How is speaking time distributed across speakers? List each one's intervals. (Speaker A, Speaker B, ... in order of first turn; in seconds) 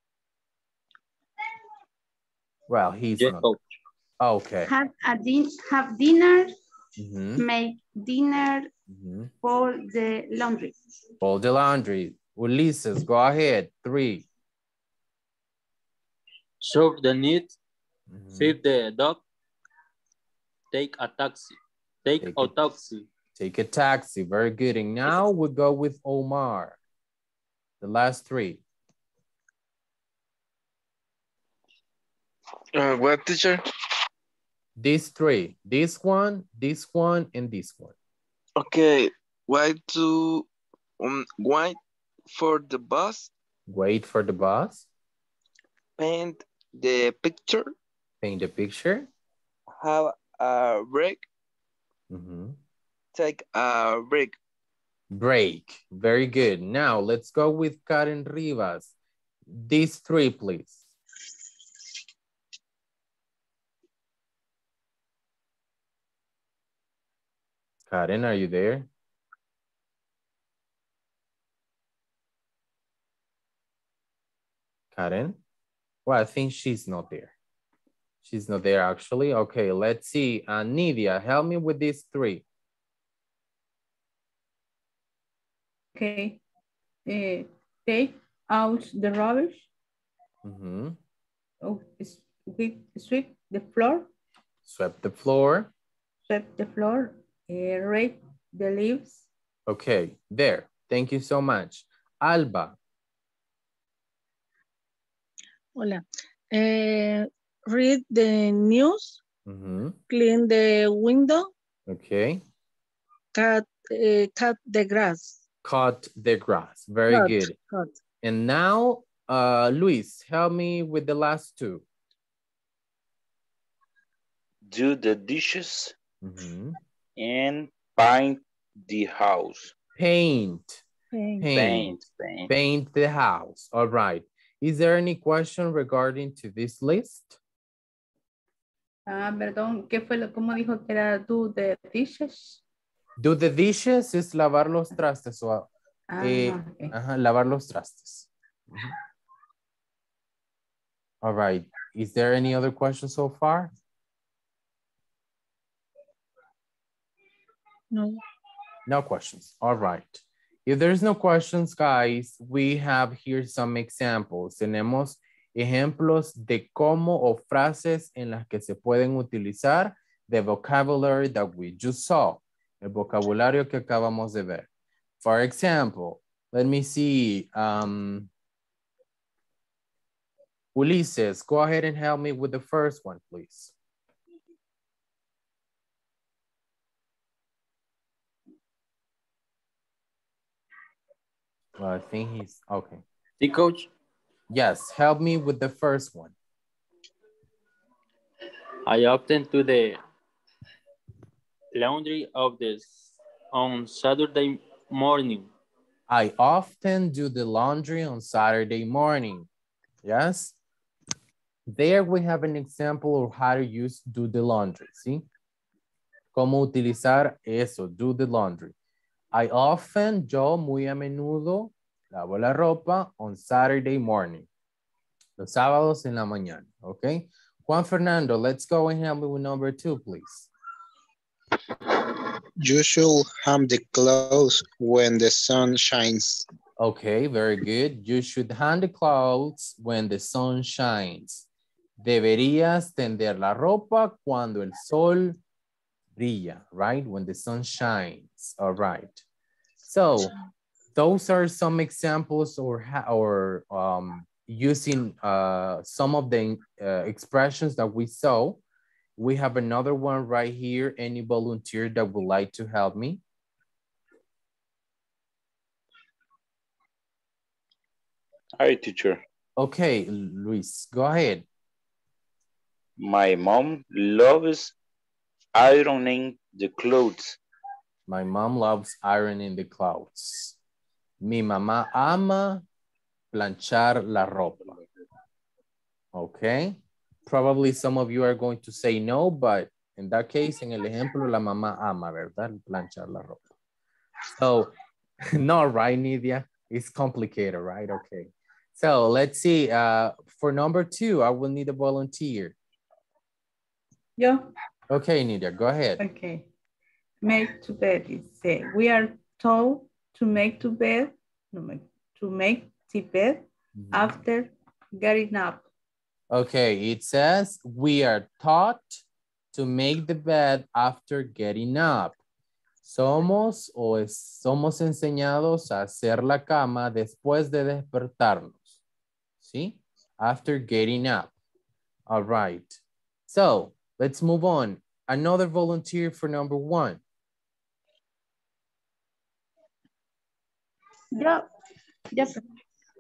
Speaker A: 2.7-3.5, 4.2-4.7, 7.0-7.4, 8.9-9.3, 11.2-14.3, 18.1-18.6, 22.2-22.8, 23.4-26.8, 27.8-28.6, 34.8-37.9, 43.7-44.9, 48.2-49.1, 52.1-52.6, 55.1-58.9, 59.5-60.8, 67.9-68.9, 74.9-75.4, 76.1-77.3, 78.2-82.5, 90.4-91.0, 94.7-95.7, 99.7-102.8, 109.5-110.0, 111.9-112.4, 115.6-117.5, 118.2-121.8, 126.2-126.8, 130.0-130.8, 131.4-137.4, 143.2-148.9, 151.2-153.7, 158.9-174.7, 175.2-178.3, 180.8-183.7, 191.8-193.0, 194.5-196.3, 206.1-209.5, 210.0-210.6, 211.7-215.3, 216.3-218.7, 219.3-224.5, 225.4-230.5, 236.8-241.5, 242.0-245.4, 246.2-249.2, 249.9-250.3, 250.9-258.6, 259.2-263.2, 269.6-271.4, 278.1-280.6, 281.2-282.6, 283.3-284.8, 286.1-293.5, 294.3-294.7, 295.3-302.6, 304.9-306.0, 313.8-314.2, 316.3-322.2, 322.8-328.8, 329.4-331.3, 332.1-337.0
Speaker B: 3.2-3.6, 16.6-17.6, 18.4-19.2, 20.7-23.1, 193.4-193.9, 198.9-200.0, 201.7-205.5
Speaker C: 4.7-6.5, 7.4-8.7, 9.4-10.7, 341.1-341.4, 342.1-342.4
Speaker D: 32.8-33.6, 38.6-40.5, 41.0-41.8, 42.3-43.3, 46.0-47.7, 49.8-51.2, 53.1-54.4
Speaker E: 86.0-86.4, 87.1-89.7, 91.6-94.1, 96.3-99.2, 139.1-142.6, 146.1-146.9, 304.2-304.4, 306.0-306.5, 307.2-315.6
Speaker F: 105.8-109.2, 110.1-111.5, 113.3-115.4, 117.1-117.9, 131.1-131.5, 157.9-158.2
Speaker G: 124.7-125.9, 127.2-129.7, 131.5-132.5, 268.6-269.2, 273.0-274.7, 275.6-277.4
Speaker H: 232.6-236.5